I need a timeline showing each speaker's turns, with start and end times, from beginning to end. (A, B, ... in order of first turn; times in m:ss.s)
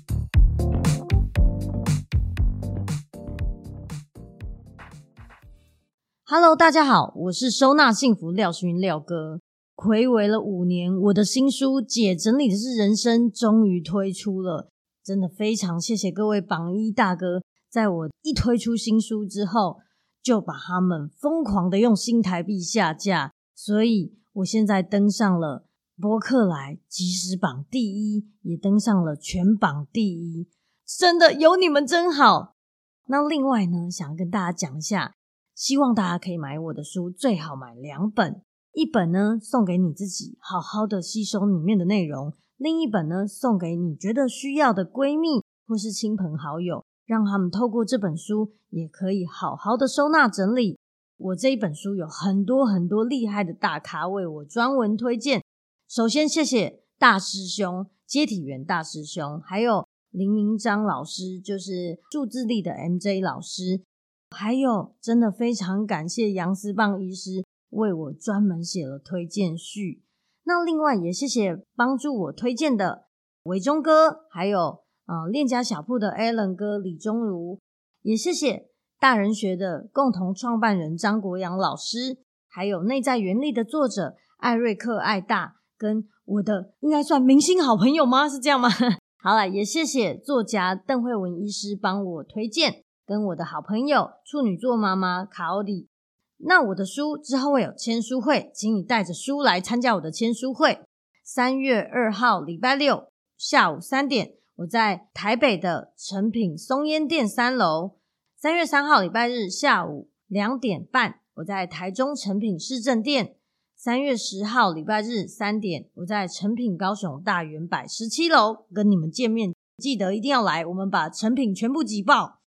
0:06.3-0:32.5 A
0:33.1-1:35.9 A
1:36.4-2:02.4 A